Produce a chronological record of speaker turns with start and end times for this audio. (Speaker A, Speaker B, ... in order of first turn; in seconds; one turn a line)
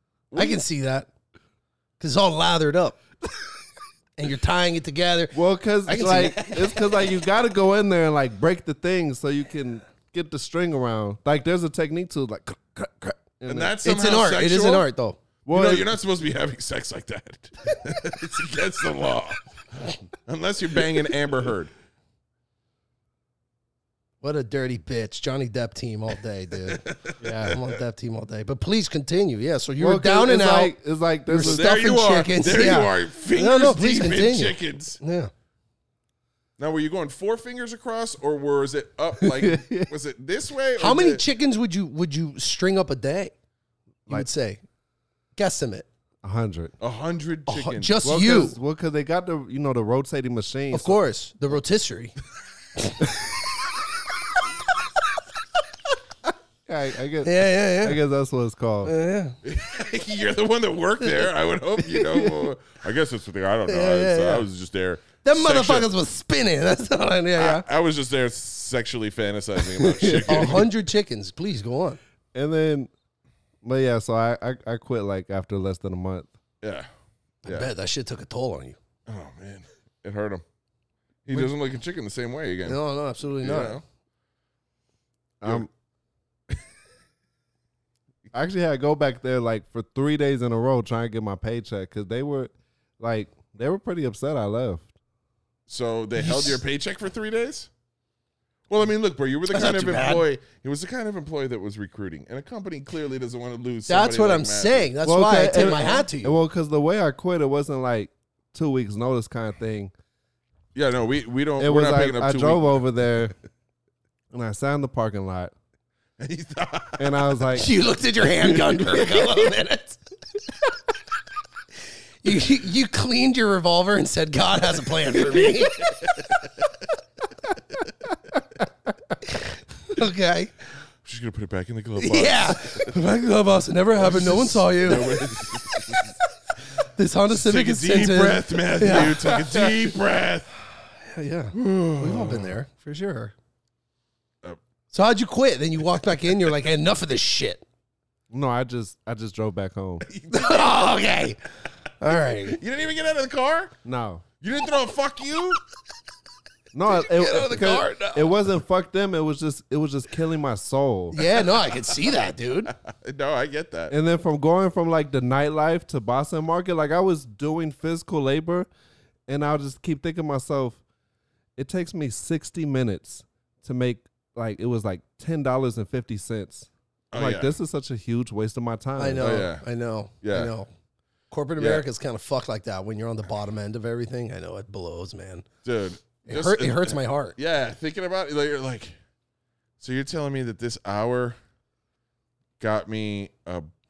Speaker A: 0.3-0.6
Speaker B: 0.4-1.1
Speaker B: 2.0-3.0
Speaker B: 4.2-6.8
Speaker C: 5.3-13.8
Speaker A: 13.5-14.9
Speaker B: 13.8-15.2
Speaker C: 15.5-15.9
Speaker A: 15.5-19.4
Speaker A: 20.3-21.7
Speaker B: 24.2-30.7
Speaker A: 26.7-27.6
Speaker C: 27.2-27.6
Speaker C: 29.8-31.7
Speaker B: 31.3-35.3
Speaker A: 31.4-35.0
Speaker A: 36.6-41.2
Speaker C: 39.4-39.9
Speaker B: 40.8-43.3
Speaker B: 44.1-44.6
Speaker B: 45.4-45.9
Speaker C: 46.2-46.7
Speaker A: 46.8-48.0
Speaker B: 47.5-48.5
Speaker C: 48.0-51.0
Speaker B: 50.7-52.1
Speaker B: 52.8-53.4
Speaker C: 56.7-58.9
Speaker B: 57.2-58.0
Speaker B: 58.9-59.4
Speaker A: 59.4-65.9
Speaker B: 61.0-61.3
Speaker C: 61.9-62.5
Speaker B: 63.7-64.5
Speaker B: 65.2-67.7
Speaker A: 67.4-70.7
Speaker C: 69.9-70.5
Speaker B: 70.2-72.0
Speaker C: 72.3-72.9
Speaker C: 73.6-76.3
Speaker A: 76.6-76.9
Speaker B: 77.4-78.8
Speaker A: 77.5-77.7
Speaker A: 79.1-80.4
Speaker A: 81.3-82.8
Speaker B: 82.7-83.8
Speaker A: 83.4-83.8
Speaker C: 85.4-85.7
Speaker C: 88.3-94.9
Speaker A: 95.7-97.7
Speaker B: 96.2-96.6
Speaker A: 98.7-104.9
Speaker B: 99.5-100.2
Speaker B: 103.9-106.4
Speaker C: 105.0-109.9
Speaker A: 105.6-105.9
Speaker A: 110.8-112.8
Speaker C: 111.6-113.3
Speaker C: 114.3-115.5
Speaker A: 116.2-117.1
Speaker C: 117.0-117.7
Speaker B: 117.5-120.0
Speaker B: 122.2-125.9
Speaker A: 125.3-126.3
Speaker B: 129.9-130.5
Speaker A: 131.0-132.9
Speaker B: 132.0-136.0
Speaker A: 134.0-136.1
Speaker B: 137.0-139.4
Speaker A: 137.3-140.5
Speaker B: 141.1-143.3
Speaker A: 141.5-142.5
Speaker B: 144.9-147.6
Speaker C: 148.3-150.1
Speaker A: 150.1-150.9
Speaker B: 150.3-151.4
Speaker B: 152.0-152.6
Speaker A: 152.5-153.7
Speaker C: 153.8-154.2
Speaker A: 154.4-155.6
Speaker C: 156.7-161.2
Speaker B: 156.9-158.3
Speaker B: 161.1-162.7
Speaker A: 162.8-163.9
Speaker C: 163.9-168.7
Speaker C: 169.3-170.8
Speaker C: 171.6-179.4
Speaker A: 177.1-177.6
Speaker B: 179.0-180.7
Speaker A: 179.2-179.7
Speaker A: 180.2-180.5
Speaker B: 181.3-185.5
Speaker A: 181.6-181.8
Speaker A: 185.6-189.0
Speaker B: 186.3-187.4
Speaker A: 189.8-191.4
Speaker A: 192.6-193.7